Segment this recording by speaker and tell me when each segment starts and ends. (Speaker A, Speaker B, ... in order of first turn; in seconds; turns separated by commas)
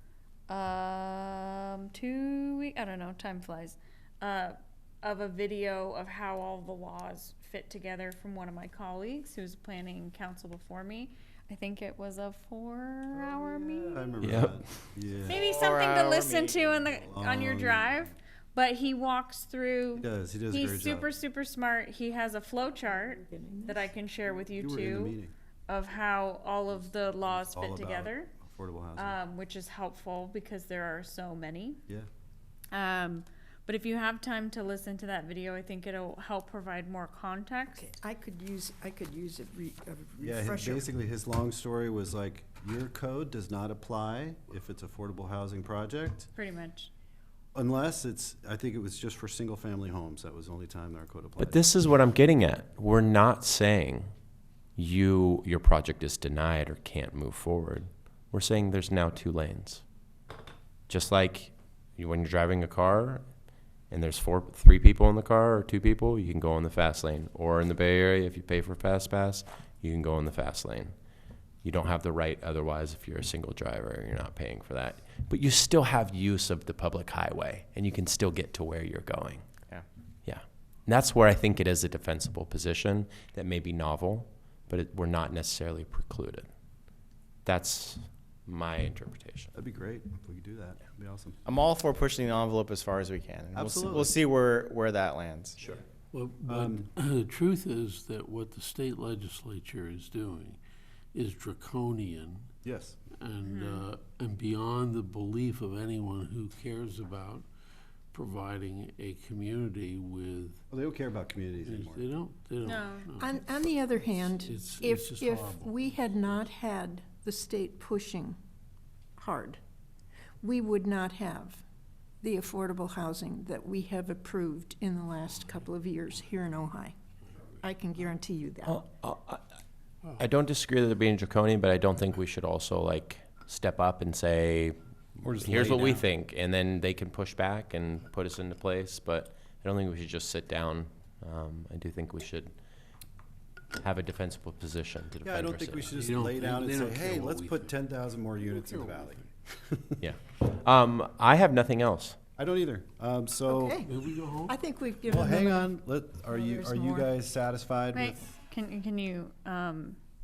Speaker A: 0.5-14.2, Speaker B: 13.2-15.5, Speaker C: 14.2-14.6, Speaker A: 15.2-28.3, Speaker D: 15.3-16.8, Speaker B: 16.9-18.1, Speaker B: 20.0-21.1, Speaker E: 22.9-23.9, Speaker B: 24.5-25.3, Speaker B: 27.3-29.2, Speaker A: 29.0-31.8, Speaker A: 32.7-37.8, Speaker E: 37.8-40.9, Speaker B: 40.2-46.3, Speaker A: 46.4-46.9, Speaker B: 47.5-51.6, Speaker C: 51.4-54.1, Speaker C: 54.8-59.8, Speaker C: 60.9-63.3, Speaker C: 63.9-70.9, Speaker C: 71.6-79.5, Speaker C: 80.3-86.5, Speaker C: 87.5-89.5, Speaker B: 89.5-91.4, Speaker D: 91.5-95.6, Speaker B: 93.5-94.1, Speaker F: 96.1-100.6, Speaker B: 96.5-96.9, Speaker F: 101.1-102.5, Speaker B: 102.6-103.0, Speaker F: 103.1-107.5, Speaker A: 103.4-103.9, Speaker F: 108.1-110.6, Speaker B: 110.7-112.1, Speaker F: 111.6-116.3, Speaker A: 112.6-113.1, Speaker E: 113.2-118.4, Speaker E: 119.2-119.6, Speaker E: 120.4-121.6, Speaker E: 122.2-126.9, Speaker E: 127.6-128.8, Speaker C: 128.7-129.4, Speaker C: 130.2-134.8, Speaker B: 135.2-136.1, Speaker C: 135.4-142.5, Speaker C: 143.8-145.9, Speaker B: 145.2-150.0, Speaker F: 145.9-147.8, Speaker F: 148.4-149.2, Speaker C: 150.0-152.2, Speaker B: 152.4-153.8, Speaker E: 153.5-153.9, Speaker F: 153.8-154.6, Speaker E: 154.5-157.1, Speaker B: 155.1-158.2, Speaker A: 157.9-160.0